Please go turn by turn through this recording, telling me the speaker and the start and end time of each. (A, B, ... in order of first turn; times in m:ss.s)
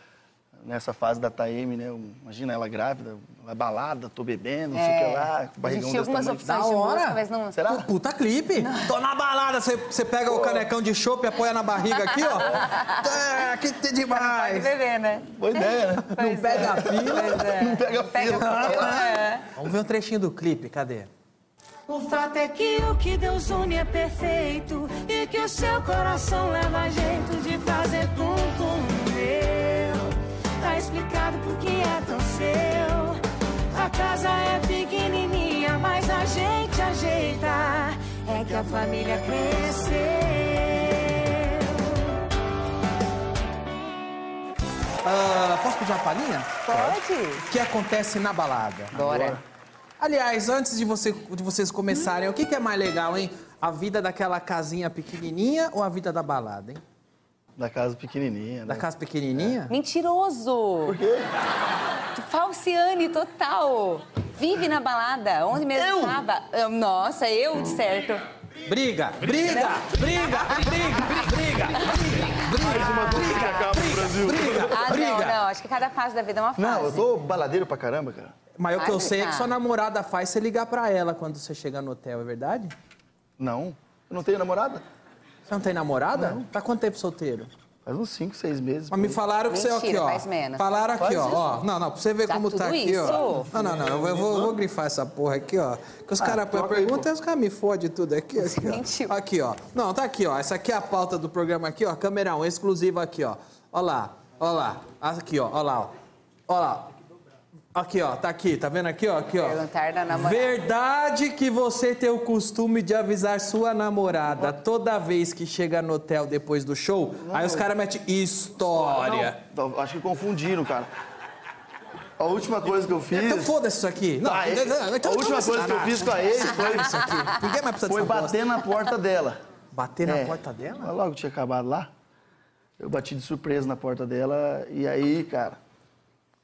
0:00.6-0:06.5 A
0:04.7-0:07.6 B
0:06.4-0:14.7 C
0:07.5-0:07.8 A
0:08.6-0:08.9 B
0:10.3-0:10.6 A
0:12.2-0:13.0 B
0:14.1-0:19.4 B
0:15.3-0:19.1 A
0:16.2-0:17.4 C
0:18.5-0:19.0 C
0:19.5-0:21.1 C
0:21.9-0:30.0 D
0:30.6-0:33.2 D
0:33.7-0:40.7 D
0:45.0-0:46.7 C
0:46.7-0:47.4 B
0:47.4-0:49.0 C
0:48.9-0:49.4 A
0:49.0-0:49.4 B
0:50.0-0:56.8 C
0:57.6-0:58.8 A
0:58.7-0:59.7 C
0:59.7-1:01.0 B
1:00.8-1:01.3 A
1:02.1-1:08.2 B
1:05.7-1:06.2 A
1:08.7-1:15.4 C
1:09.5-1:09.8 B
1:12.5-1:14.9 A
1:12.6-1:17.1 B
1:16.6-1:18.3 A
1:18.6-1:22.7 C
1:18.8-1:19.5 B
1:23.4-1:24.8 A
1:25.5-1:27.5 C
1:26.1-1:26.5 A
1:27.8-1:29.2 A
1:28.9-1:45.9 C
1:29.5-1:30.7 B
1:31.0-1:31.4 A
1:32.3-1:33.5 B
1:33.0-1:34.5 A
1:36.2-1:37.0 A
1:38.4-1:39.1 B
1:46.5-1:46.9 C
1:47.7-1:49.6 C
1:49.4-1:50.6 B
1:50.1-1:59.4 C
1:57.2-1:57.7 A
1:59.0-2:00.9 A
2:02.2-2:03.5 A
2:03.1-2:08.4 C
2:04.2-2:07.3 A
2:07.9-2:09.4 A
2:09.7-2:10.9 C
2:10.0-2:11.9 A
2:12.8-2:15.6 A